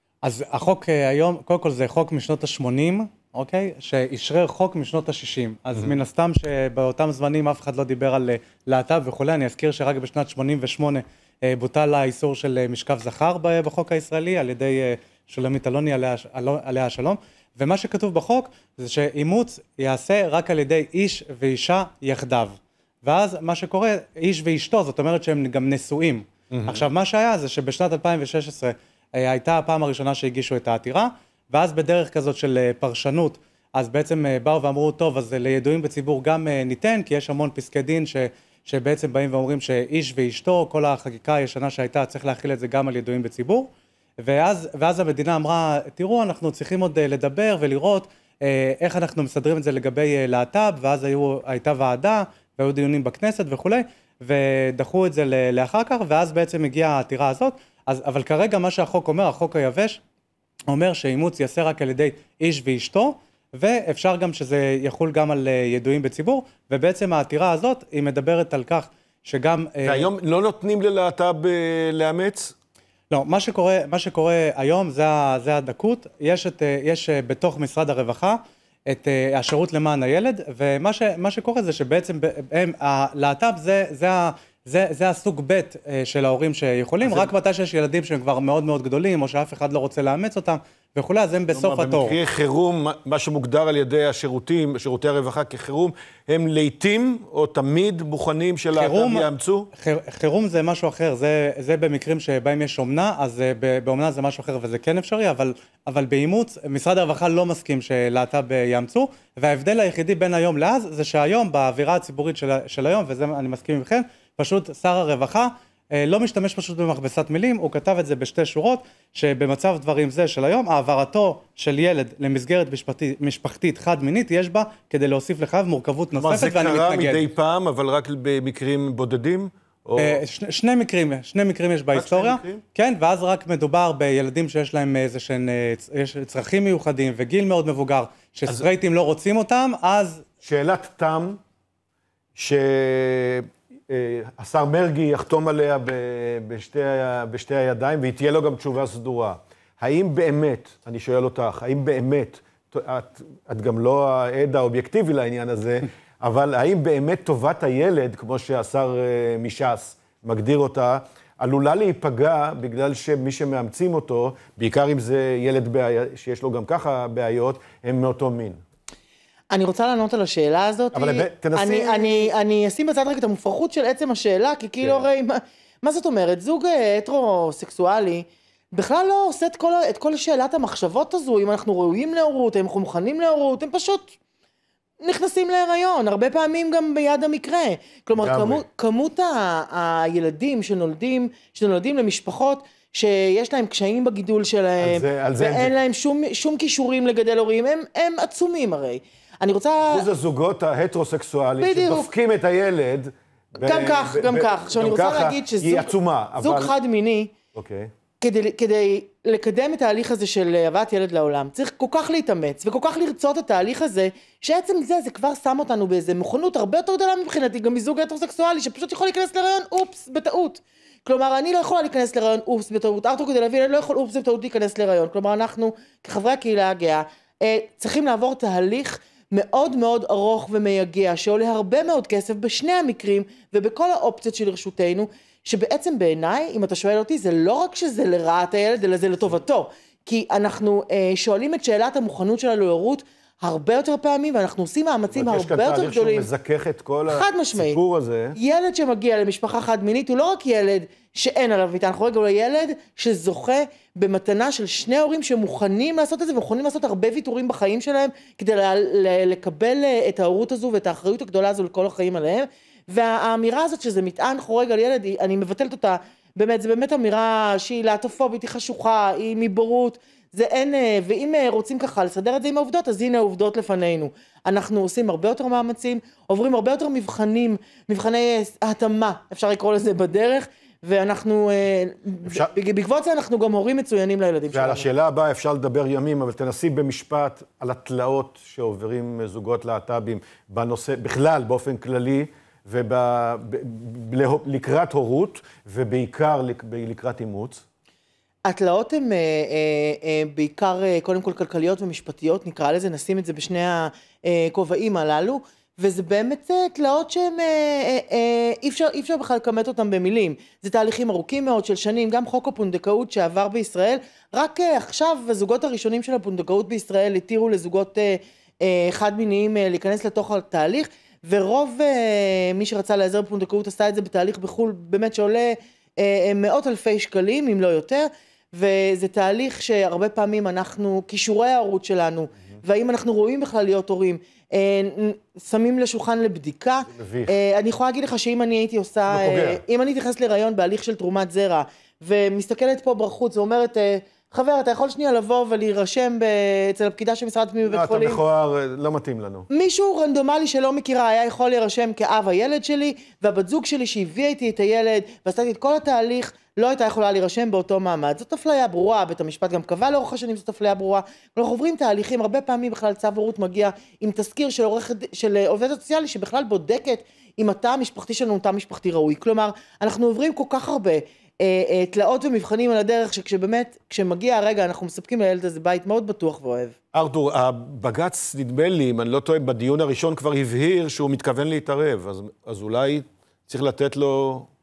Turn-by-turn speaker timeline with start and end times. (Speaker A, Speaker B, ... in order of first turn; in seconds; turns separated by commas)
Speaker A: 0.2-60.0, Speaker B: 26.5-26.8, Speaker A: 60.7-70.1, Speaker B: 69.8-72.5, Speaker A: 73.1-92.2, Speaker B: 87.0-87.3, Speaker B: 91.5-99.7, Speaker A: 98.7-127.2, Speaker B: 126.1-130.2, Speaker A: 129.9-140.2, Speaker B: 131.9-132.6, Speaker B: 140.4-141.4, Speaker B: 142.3-168.6, Speaker C: 169.5-184.2, Speaker B: 170.9-172.3, Speaker C: 185.0-200.1, Speaker B: 188.2-188.6, Speaker B: 194.8-195.7, Speaker B: 199.8-206.7, Speaker C: 201.6-202.1, Speaker C: 203.6-207.3, Speaker B: 207.5-207.9, Speaker C: 208.2-246.3, Speaker B: 245.1-248.4, Speaker C: 247.1-247.8, Speaker C: 248.3-284.9, Speaker B: 282.2-282.5, Speaker B: 284.5-297.6, Speaker C: 298.4-348.2, Speaker B: 336.9-337.3, Speaker B: 339.1-339.6, Speaker B: 347.6-349.5, Speaker C: 349.5-376.8, Speaker B: 376.9-384.5